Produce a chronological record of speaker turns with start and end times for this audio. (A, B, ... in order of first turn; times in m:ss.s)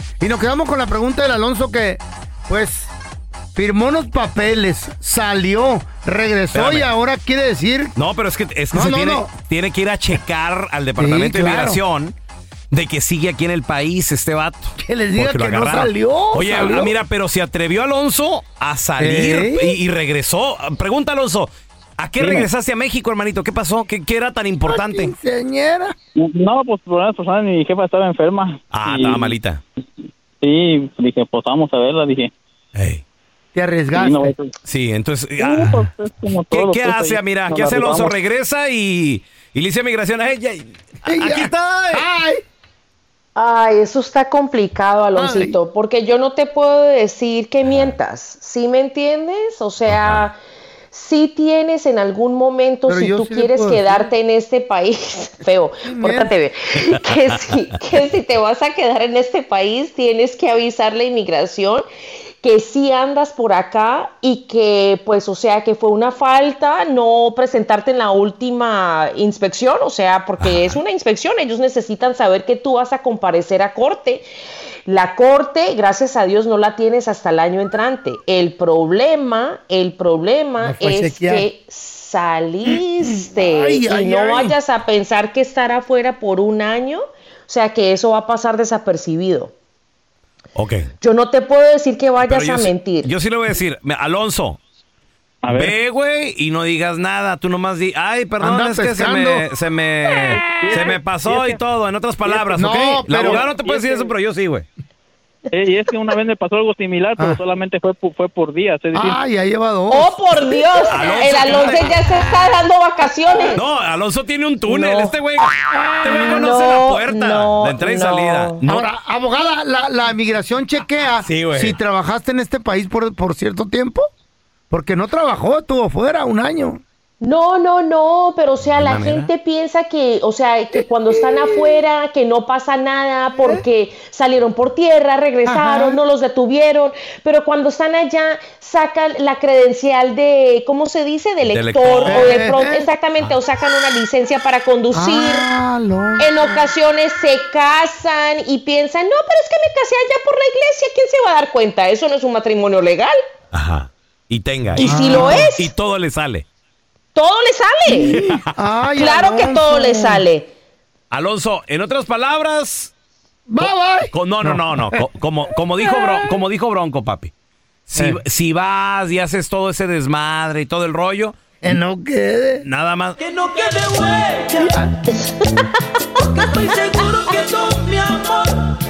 0:00.2-0:02.9 A
0:03.6-0:08.0 A
0:06.5-0:06.9 B
0:08.0-0:12.1 B
0:08.7-0:09.3 A
0:11.0-0:11.8 A
0:12.7-0:25.2 B
0:14.8-0:17.0 A
0:19.0-0:19.8 A
0:22.2-0:22.5 C
0:24.7-0:26.0 A
0:26.2-0:29.4 C
0:28.7-0:29.6 B
0:30.4-0:32.3 C
0:32.8-0:33.0 B
0:33.6-0:34.3 A
0:33.9-0:34.5 C
0:34.7-0:35.8 B
0:35.4-0:38.2 C
0:36.5-0:42.0 B
0:41.1-0:42.4 A
0:43.4-0:50.4 D
0:45.2-0:45.6 A
0:47.7-0:47.9 B
0:49.9-0:50.3 B
0:50.9-1:01.8 D
0:52.9-0:54.1 A
0:55.9-0:56.3 A
1:02.4-1:14.2 D
1:10.4-1:10.8 B
1:14.9-1:29.5 D
1:20.6-1:21.4 A
1:22.7-1:24.6 A
1:30.6-1:30.9 B
1:31.0-1:33.1 D
1:32.2-1:34.6 B
1:35.4-1:35.7 C
1:35.5-1:44.7 B
1:38.4-1:39.4 A
1:40.3-1:41.6 C
1:42.3-1:43.4 A
1:43.2-1:44.1 C
1:45.5-1:49.2 C
1:48.9-1:50.5 A
1:49.9-1:53.6 D
1:50.9-1:52.0 B
1:53.5-1:58.9 B
1:54.7-1:55.2 D
1:56.0-1:58.6 D
1:58.7-2:04.1 A
2:01.2-2:01.8 B
2:04.7-2:06.8 A
2:07.2-2:25.5 D
2:08.7-2:09.3 B
2:10.8-2:11.8 A
2:15.5-2:16.0 A
2:21.4-2:22.4 B
2:22.0-2:22.9 A
2:24.9-2:26.3 A
2:26.2-2:33.2 D
2:33.5-2:36.5 B
2:34.8-2:35.7 D
2:34.8-2:35.5 A
2:37.2-2:38.2 D
2:37.9-2:40.2 A
2:38.1-2:38.4 B
2:39.0-2:40.5 D
2:41.1-2:42.9 B
2:43.5-2:45.0 A
2:43.6-2:47.3 B
2:45.9-2:46.3 A
2:47.9-2:51.4 B
2:51.6-2:52.6 A
2:52.6-2:53.2 B
2:53.3-2:53.9 E
2:54.6-2:54.9 A
2:56.9-2:58.2 E